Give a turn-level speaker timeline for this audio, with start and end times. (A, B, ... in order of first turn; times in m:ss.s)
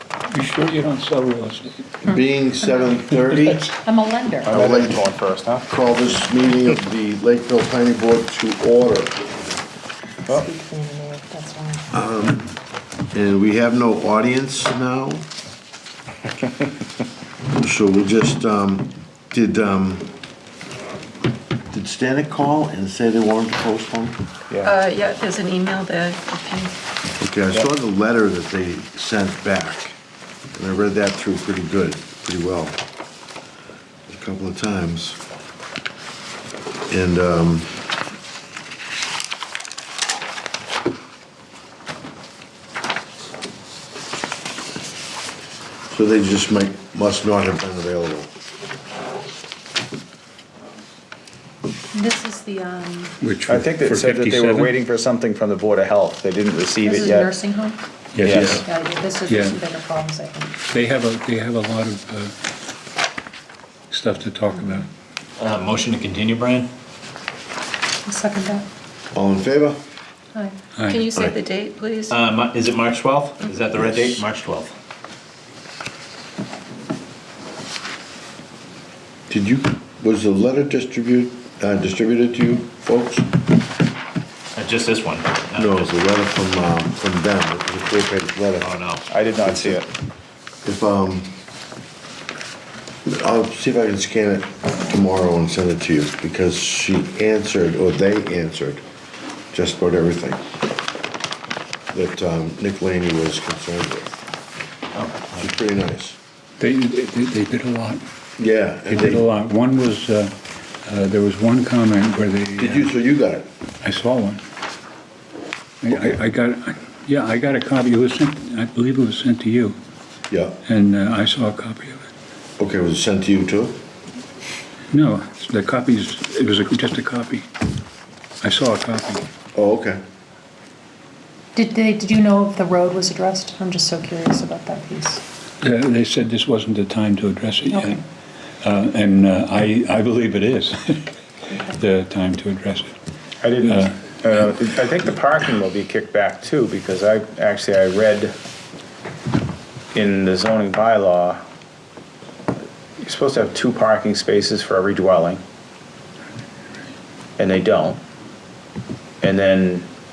0:00.3-0:02.1 A
0:02.0-0:03.7 B
0:03.8-0:04.5 C
0:04.4-0:05.7 D
0:04.5-0:05.0 B
0:05.7-0:09.2 B
0:10.3-0:11.8 C
0:11.9-0:12.5 B
0:13.1-0:15.3 B
0:17.5-0:20.1 B
0:21.7-0:24.2 B
0:24.6-0:26.8 E
0:27.2-0:30.0 B
0:30.5-0:32.8 B
0:34.1-0:35.2 B
0:36.9-0:37.7 B
0:45.9-0:48.3 B
0:51.9-0:53.2 C
0:53.2-0:54.7 A
0:53.5-0:57.3 D
0:56.8-0:57.8 C
0:58.1-0:58.5 A
0:58.2-0:58.6 B
0:58.4-1:00.5 C
0:59.3-0:59.6 A
1:00.7-1:02.3 A
1:03.9-1:04.9 A
1:05.4-1:06.7 F
1:08.0-1:08.6 C
1:09.1-1:09.8 B
1:10.8-1:11.1 A
1:10.8-1:12.2 E
1:12.1-1:14.7 F
1:13.7-1:14.1 B
1:19.3-1:23.3 B
1:24.6-1:25.9 F
1:25.5-1:28.7 B
1:28.6-1:29.0 F
1:29.1-1:29.9 D
1:29.4-1:29.8 B
1:30.6-1:31.4 B
1:33.0-1:38.8 B
1:39.5-1:40.4 B
1:41.9-1:44.2 B
1:45.0-1:45.5 F
1:45.3-1:46.2 B
1:46.6-1:48.0 A
1:48.4-1:49.2 B
1:48.9-1:50.3 A
1:50.8-1:52.9 A
1:52.6-1:53.4 B
1:53.8-1:54.4 A
1:55.8-1:59.8 A
2:00.3-2:00.6 B
2:00.6-2:02.1 A
2:02.6-2:03.8 B
2:04.9-2:07.4 A
2:08.4-2:09.2 A
2:09.5-2:10.0 B
2:11.5-2:15.2 C
2:15.6-2:18.0 A
2:17.7-2:18.0 C
2:18.6-2:21.0 A
2:21.7-2:22.9 A
2:23.4-2:28.3 D
2:23.6-2:24.1 A
2:29.9-2:31.4 D
2:33.0-2:35.4 D
2:37.4-2:38.0 D
2:39.2-2:39.9 D